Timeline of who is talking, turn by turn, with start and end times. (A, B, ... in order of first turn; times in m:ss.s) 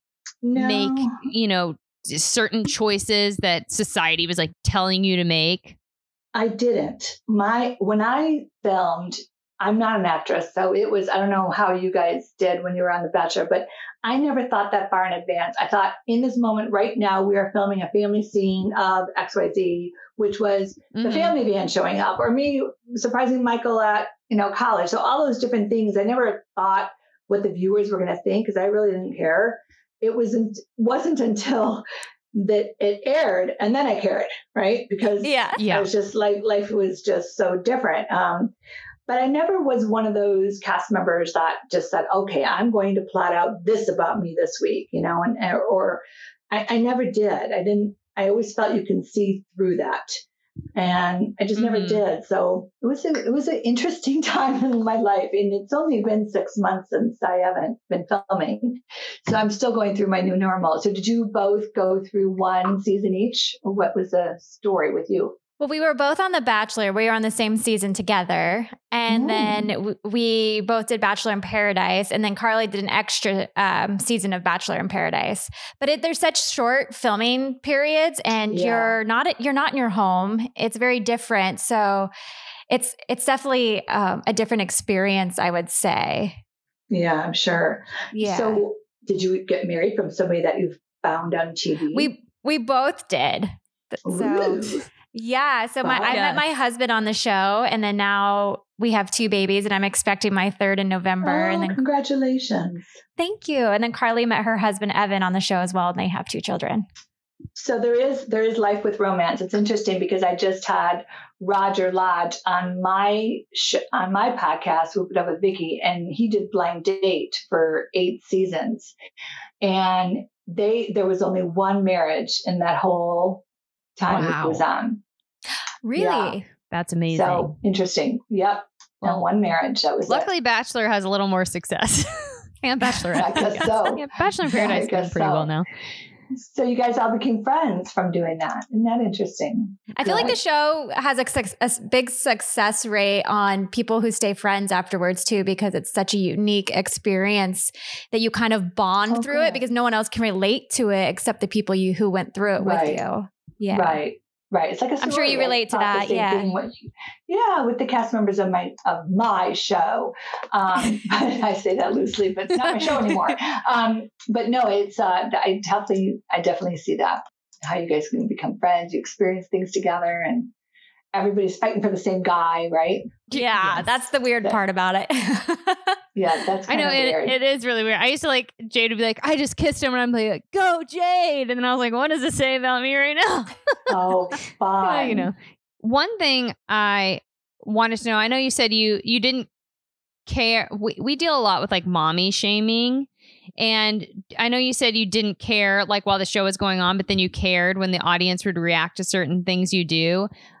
0:00.4-0:01.1 A
0:00.5-0:05.8 B
0:06.3-0:38.5 A
0:20.9-0:21.4 B
0:35.2-0:35.6 C
0:35.6-0:35.9 B
0:39.1-0:50.2 A
0:50.7-1:05.4 A
0:51.6-0:52.0 B
1:05.6-1:22.1 C
1:09.1-1:09.7 A
1:18.5-1:19.0 A
1:22.7-1:26.4 C
1:26.9-1:32.1 A
1:28.1-1:28.6 C
1:31.9-1:41.8 C
1:34.0-1:34.8 A
1:35.8-1:36.2 A
1:36.1-1:36.4 B
1:41.2-1:42.9 A
1:43.2-1:46.8 C
1:47.5-1:58.9 A
1:59.6-2:03.4 A
2:04.0-2:05.0 A
2:04.1-2:04.6 B
2:05.8-2:06.5 C
2:06.0-2:06.4 A
2:06.7-2:07.6 B
2:07.1-2:10.3 A
2:10.1-2:15.7 B
2:13.1-2:15.5 A
2:16.3-2:20.4 A
2:19.9-2:34.0 C
2:29.1-2:29.6 A
2:32.6-2:33.0 A
2:33.7-2:50.5 A
2:35.0-2:36.5 C
2:51.1-2:53.3 A
2:53.3-2:56.0 C
2:53.4-2:53.8 B
2:56.1-2:57.4 A
2:56.7-3:03.8 B
3:03.9-3:05.3 A
3:04.8-3:09.5 B
3:10.3-3:20.3 B